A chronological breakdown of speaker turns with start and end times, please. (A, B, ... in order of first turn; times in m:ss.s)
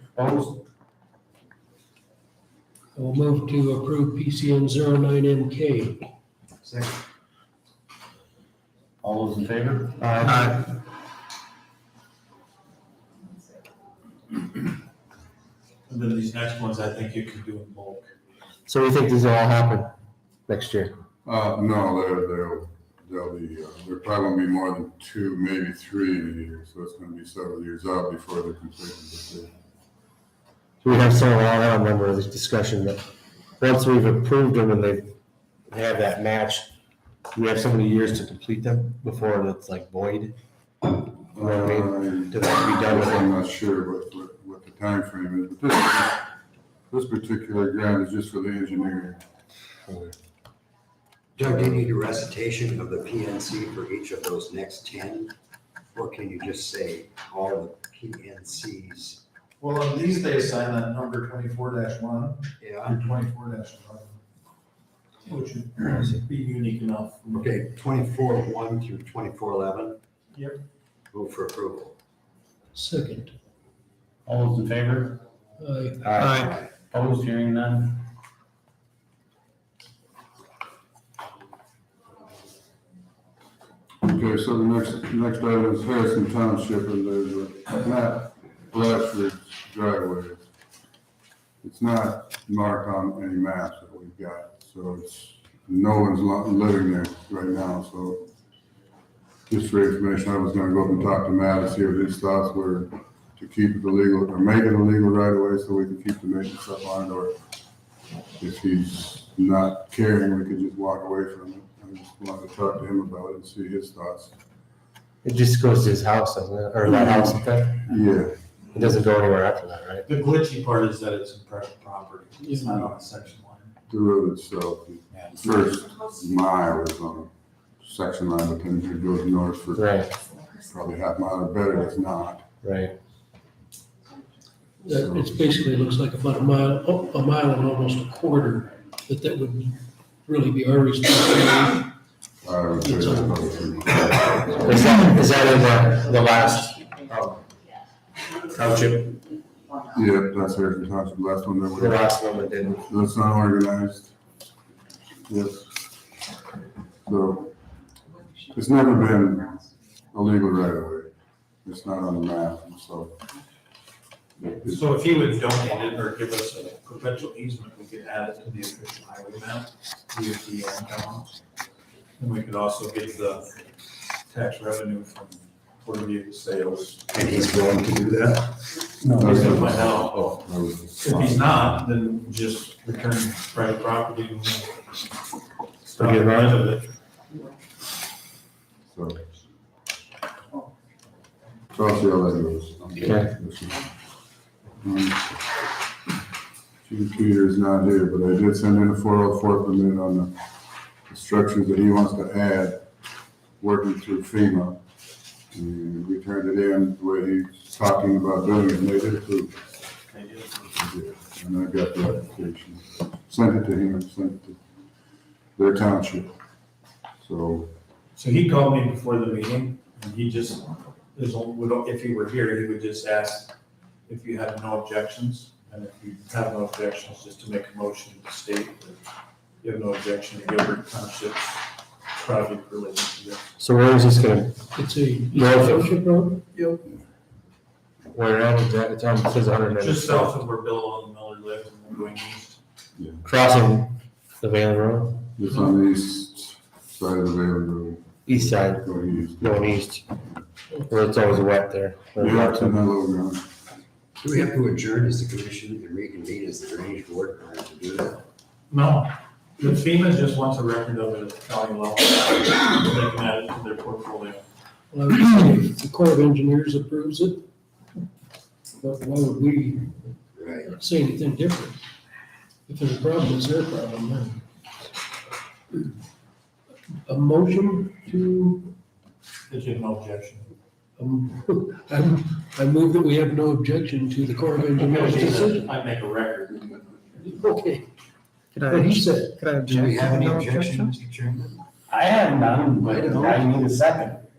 0:00.2-0:00.6 A
0:02.9-0:06.0 B
0:06.6-0:07.0 C
0:09.0-0:10.4 A
0:10.0-0:10.7 D
0:15.9-0:18.1 E
0:18.7-0:19.9 D
0:20.5-0:20.9 D
0:21.2-0:29.5 F
0:30.8-0:33.0 D
0:33.6-0:35.1 D
0:35.7-0:36.7 D
0:37.3-0:40.4 D
0:41.3-0:43.3 D
0:41.4-0:46.2 F
0:46.9-0:49.2 F
0:49.9-0:50.2 D
0:51.4-0:55.3 C
0:51.4-0:51.8 F
0:55.9-0:59.2 C
0:59.6-1:02.4 E
1:02.6-1:03.1 C
1:02.9-1:04.1 E
1:05.2-1:07.5 E
1:07.3-1:10.0 C
1:10.3-1:10.6 E
1:11.1-1:12.0 C
1:12.7-1:13.3 B
1:14.2-1:15.2 A
1:15.6-1:16.1 B
1:16.0-1:18.0 A
1:16.1-1:16.7 C
1:24.0-1:30.4 F
1:31.6-1:38.2 F
1:39.5-1:47.4 F
1:48.4-1:54.3 F
1:55.2-1:57.9 D
1:56.8-1:58.4 F
1:58.7-2:00.0 D
2:00.1-2:03.7 E
2:03.9-2:10.0 F
2:05.1-2:05.6 E
2:09.8-2:10.1 D
2:10.5-2:12.4 F
2:12.6-2:13.0 D
2:14.8-2:21.9 B
2:14.9-2:15.4 F
2:22.4-2:24.8 F
2:22.8-2:23.6 B
2:24.6-2:27.4 D
2:28.5-2:29.2 D
2:29.9-2:32.0 F
2:31.7-2:32.9 D
2:32.9-2:34.1 F
2:35.3-2:35.7 F
2:37.0-2:37.5 F
2:38.5-2:39.6 F
2:40.1-2:41.1 F
2:41.6-2:43.2 F
2:44.6-2:51.4 E
2:52.2-2:53.6 E
2:54.3-2:57.1 E
2:57.1-2:58.6 C
2:59.1-3:00.3 E
2:59.1-3:01.6 F
3:01.0-3:04.8 E
3:05.8-3:06.9 E
3:06.0-3:06.6 D
3:08.9-3:09.2 F
3:11.7-3:13.9 F
3:13.0-3:13.3 D
3:14.8-3:15.4 F
3:16.8-3:20.3 F
3:21.1-3:22.8 F
3:23.6-3:24.8 F
3:25.5-3:29.6 F
3:30.1-3:30.8 E
3:30.8-3:34.6 F
3:35.6-3:36.4 F
3:37.2-3:37.7 F
3:38.2-3:43.5 E
3:44.1-3:49.0 E
3:49.6-3:51.6 E
3:52.1-3:53.5 E
3:53.6-3:54.6 D
3:54.7-3:56.8 B
3:55.3-3:55.9 D
3:58.1-4:00.4 D
3:59.8-4:02.6 E
4:03.0-4:03.2 F
4:03.2-4:05.3 D
4:05.4-4:09.8 F
4:08.2-4:10.0 D
4:10.7-4:11.0 B
4:10.9-4:12.8 D
4:12.2-4:13.4 F
4:14.2-4:18.2 C
4:18.7-4:24.4 E
4:24.9-4:27.4 B
4:28.8-4:30.0 B
4:30.4-4:30.7 C
4:30.6-4:31.8 B
4:32.7-4:34.4 B
4:37.0-4:38.7 B
4:39.5-4:40.5 E
4:41.0-4:45.7 B
4:44.8-4:47.0 E
4:47.2-4:47.9 B
4:48.6-4:49.4 B
4:48.7-4:49.1 A
4:49.4-4:49.7 D
4:49.6-4:50.9 A
4:49.7-4:51.6 C
4:51.9-4:53.7 A
4:52.3-4:54.2 D
4:52.9-4:53.3 B
4:53.0-4:53.3 C